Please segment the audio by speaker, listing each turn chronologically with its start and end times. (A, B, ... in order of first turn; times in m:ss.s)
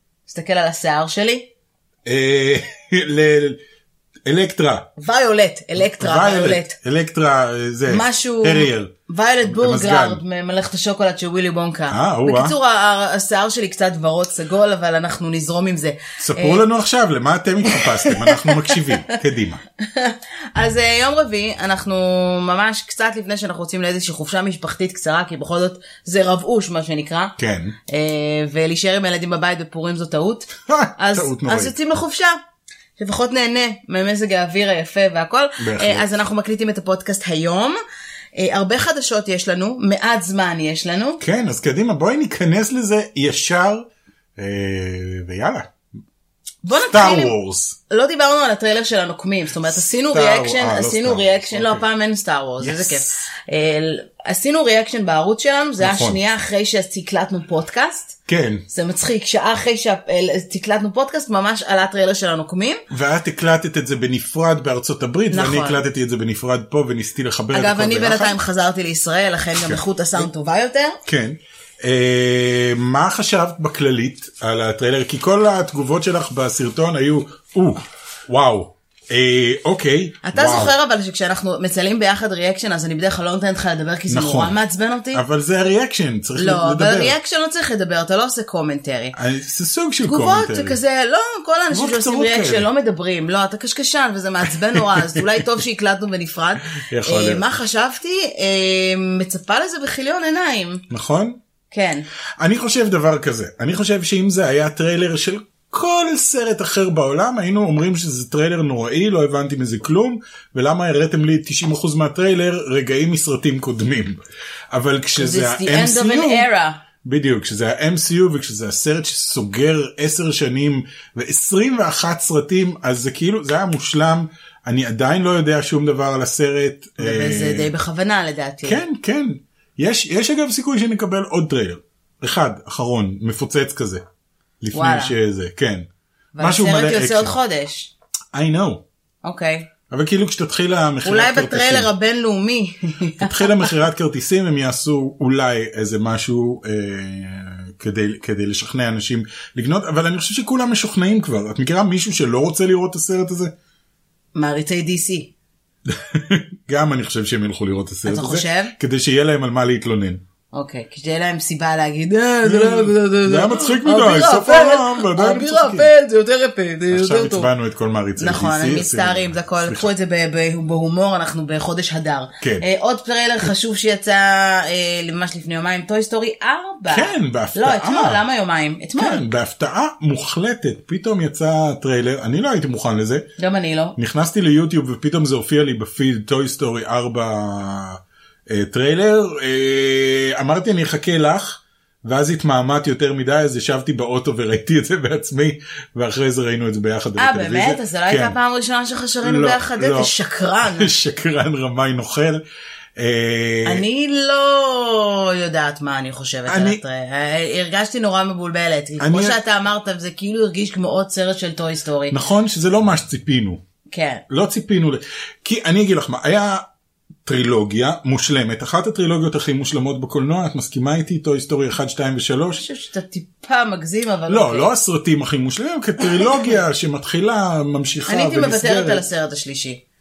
0:00.3-0:01.5 A
0:02.0-0:03.6 B
0:04.2-0:04.9 B
0:05.0-0:06.8 A
0:05.8-0:08.9 B
0:07.9-0:16.6 A
0:09.4-0:10.2 B
0:11.9-0:12.6 B
0:16.2-0:19.6 B
0:17.6-0:19.2 A
0:19.8-0:27.4 A
0:27.4-0:27.8 B
0:27.9-0:32.4 A
0:30.7-0:31.7 B
0:33.0-0:37.8 A
0:35.6-0:36.1 B
0:38.3-0:41.2 A
0:41.2-0:45.7 B
0:46.6-0:47.3 A
0:46.7-0:47.8 B
0:47.9-1:02.8 A
0:49.7-0:51.9 B
0:52.6-0:53.2 B
0:55.8-0:56.2 B
0:58.3-0:58.6 B
1:02.9-1:08.4 B
1:05.3-1:05.8 A
1:07.5-1:11.0 A
1:09.6-1:10.3 B
1:11.0-1:20.7 B
1:20.2-1:25.2 A
1:24.1-1:24.6 B
1:25.1-1:27.1 B
1:26.4-1:29.2 A
1:29.1-1:30.8 B
1:30.0-1:40.8 A
1:31.7-1:32.7 B
1:34.7-1:35.4 B
1:36.7-1:37.5 B
1:40.9-1:41.4 B
1:41.7-1:42.0 A
1:42.4-1:54.2 B
1:54.7-1:56.5 B
1:55.2-1:56.8 A
1:57.0-2:07.7 B
2:07.0-2:08.8 A
2:08.6-2:14.0 B
2:14.6-2:15.9 B
2:14.7-2:15.1 A
2:16.3-2:17.9 A
2:16.4-2:17.4 B
2:18.3-2:18.8 B
2:19.2-2:19.7 A
2:19.9-2:21.9 B
2:21.0-2:23.8 A
2:23.2-2:33.5 B
2:34.3-2:35.3 A
2:35.9-2:40.2 B
2:38.0-2:38.8 A
2:40.5-2:47.5 A
2:42.4-2:45.9 B
2:46.9-2:49.9 B
2:48.2-2:59.3 A
2:52.4-2:52.6 B
2:56.9-2:58.2 B
2:59.0-3:03.3 B
3:03.4-3:04.0 A
3:04.0-3:18.4 B
3:17.2-3:20.9 A
3:19.2-3:20.1 B
3:20.6-3:22.4 B
3:23.0-3:23.8 B
3:23.6-3:32.2 A
3:26.4-3:26.8 B
3:29.0-3:29.4 B
3:32.1-3:33.6 B
3:33.9-3:34.2 A
3:34.3-3:36.6 B
3:37.2-3:42.6 B
3:42.6-3:44.7 A
3:44.3-3:49.0 B
3:48.1-3:49.8 A